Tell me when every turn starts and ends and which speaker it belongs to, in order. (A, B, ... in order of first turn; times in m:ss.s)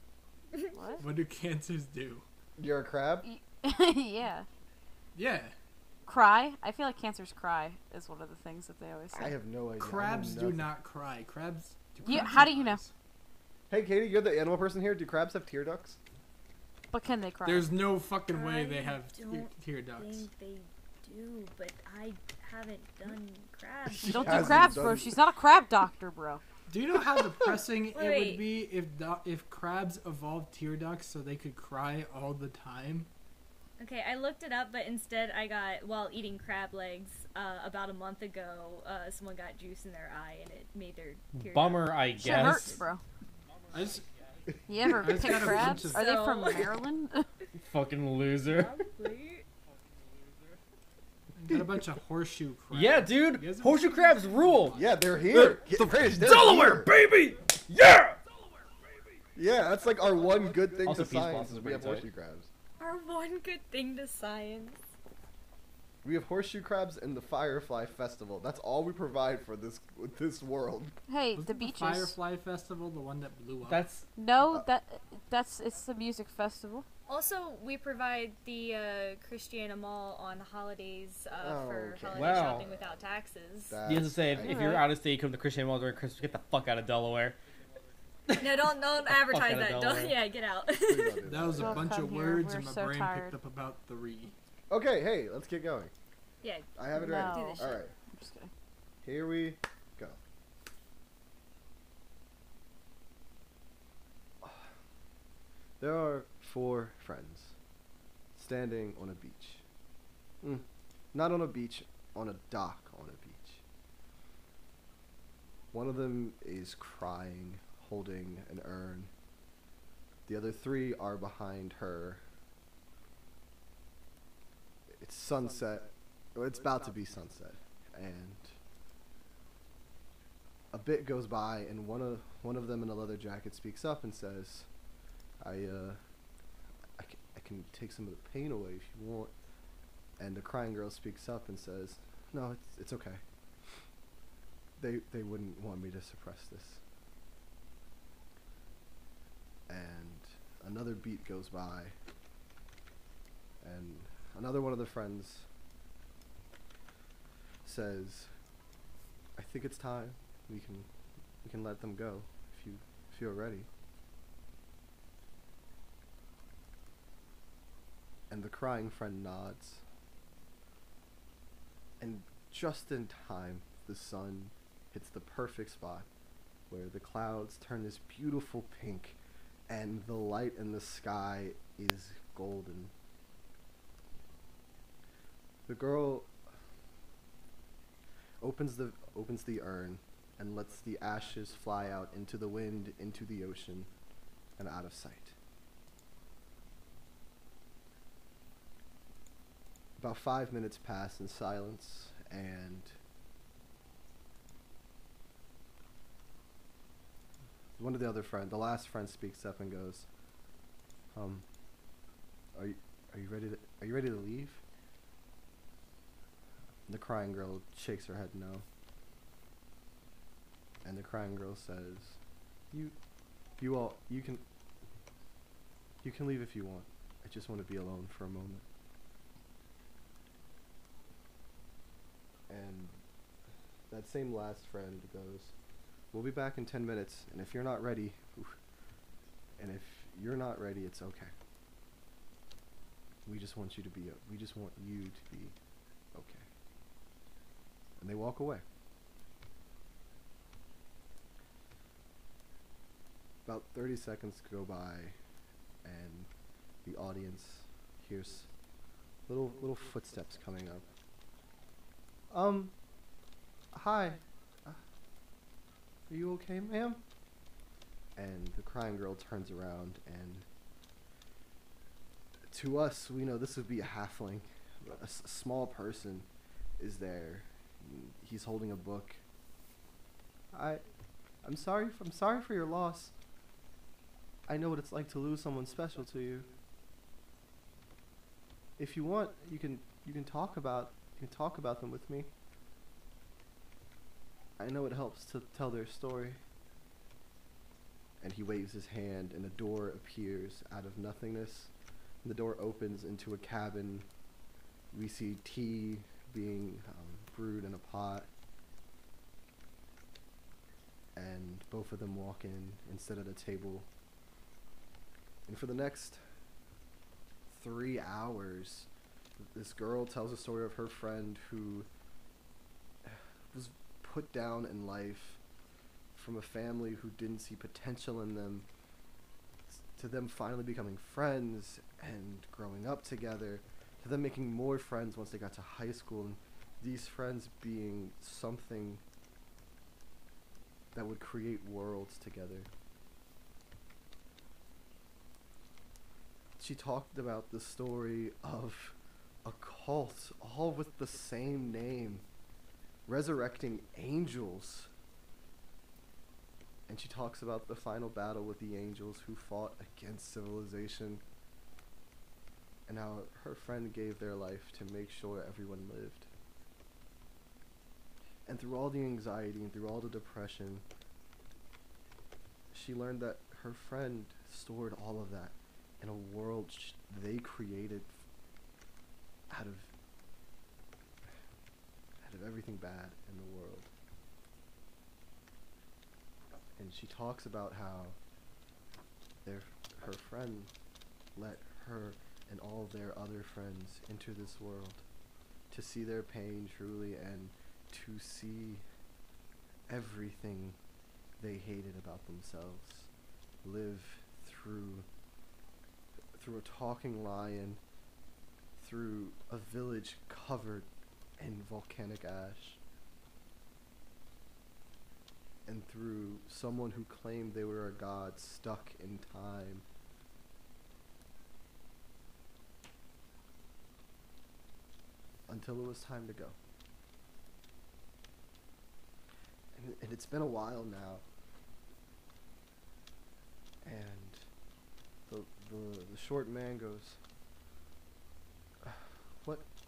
0:00.7-0:01.0 A
0:01.0-0:02.2 B
0:02.6-0:03.3 C
0:03.2-0:04.5 A
0:05.2-0:05.6 B
0:06.1-0:09.3 A
0:09.2-0:10.7 C
0:09.8-0:12.9 B
0:12.0-0:12.8 A
0:13.7-0:16.0 C
0:16.9-0:17.7 A
0:17.4-0:20.3 B
0:18.3-0:24.9 D
0:23.9-0:25.2 C
0:24.1-0:26.4 A
0:26.7-0:33.1 B
0:27.9-0:28.5 D
0:33.8-0:42.7 D
0:41.4-0:42.8 E
0:42.2-0:43.0 A
0:43.7-0:44.1 B
0:44.7-0:47.3 A
0:44.9-0:46.1 B
0:45.7-0:46.7 D
0:47.6-0:48.8 E
0:48.6-0:49.4 D
0:51.4-0:54.7 B
0:52.7-0:58.2 E
0:54.8-0:56.9 C
0:59.4-1:02.5 C
1:00.8-1:02.1 E
1:02.8-1:04.8 D
1:06.0-1:11.0 C
1:11.1-1:12.2 A
1:11.4-1:13.8 B
1:13.7-1:14.1 E
1:14.2-1:16.9 A
1:17.1-1:23.8 D
1:21.4-1:22.9 C
1:22.2-1:22.6 E
1:23.7-1:24.8 C
1:23.9-1:27.4 E
1:24.4-1:24.9 A
1:28.3-1:30.2 E
1:28.4-1:31.2 D
1:30.8-1:31.9 C
1:31.3-1:34.4 B
1:31.6-1:33.4 A
1:34.7-1:35.9 C
1:36.4-1:37.8 D
1:36.8-1:37.9 C
1:37.0-1:38.5 A
1:39.0-1:40.2 C
1:44.4-1:44.7 C
1:45.8-1:47.6 C
1:48.4-1:49.6 C
1:50.4-1:53.6 C
1:55.7-1:59.1 C
2:00.3-2:02.2 C
2:05.0-2:08.6 C
2:10.7-2:14.7 C
2:15.4-2:16.0 C
2:17.0-2:19.3 C
2:20.2-2:23.8 C
2:24.8-2:26.8 C
2:29.7-2:32.0 C
2:33.6-2:35.5 C
2:37.6-2:38.3 C
2:39.4-2:40.9 C
2:41.4-2:43.7 C
2:48.3-2:49.8 C
2:52.0-2:56.1 C
2:56.7-3:02.9 C
3:05.7-3:06.3 C
3:08.4-3:13.9 C
3:14.6-3:15.4 C
3:20.0-3:23.0 C
3:27.8-3:30.1 C
3:31.1-3:31.4 C
3:32.6-3:34.6 C
3:36.9-3:38.6 C
3:40.8-3:42.2 C
3:43.6-3:44.4 C
3:46.0-3:48.6 C
3:52.5-3:53.0 C
3:53.9-3:55.5 C
3:56.1-3:58.6 C
3:59.6-4:01.3 C
4:03.3-4:05.6 C
4:06.1-4:06.5 C
4:08.0-4:08.6 C
4:13.5-4:15.2 C
4:15.8-4:16.3 C
4:16.8-4:18.5 C
4:19.3-4:20.8 C
4:22.3-4:22.8 C
4:23.7-4:24.8 C
4:26.1-4:27.0 C
4:28.2-4:30.5 C
4:32.5-4:36.3 C
4:36.8-4:39.2 C
4:40.5-4:40.8 C
4:41.4-4:43.1 C
4:44.5-4:46.5 C
4:48.8-4:52.3 C
4:54.6-4:56.4 C
4:58.2-5:01.7 C
5:02.2-5:04.1 C
5:04.9-5:08.3 C
5:11.2-5:13.9 C
5:15.5-5:16.2 C
5:17.5-5:18.9 C
5:19.5-5:21.9 C
5:23.0-5:25.4 C
5:26.1-5:28.7 C
5:29.7-5:39.0 C
5:41.0-5:42.7 C
5:46.6-5:52.2 C
5:53.1-5:54.9 C
5:56.9-6:01.2 C
6:02.9-6:06.3 C
6:08.5-6:10.8 C
6:12.7-6:18.2 C
6:19.5-6:19.9 C
6:22.2-6:23.9 C
6:26.8-6:28.2 C
6:29.4-6:30.7 C
6:31.4-6:35.0 C
6:35.7-6:38.8 C
6:39.9-6:40.8 C
6:41.4-6:43.1 C
6:43.6-6:45.1 C
6:46.4-6:47.8 C
6:48.8-6:50.9 C
6:51.4-6:52.8 C
6:55.7-6:59.8 C
7:05.5-7:06.6 C
7:09.8-7:11.2 C
7:13.8-7:14.5 C
7:15.3-7:17.2 C
7:18.8-7:19.7 C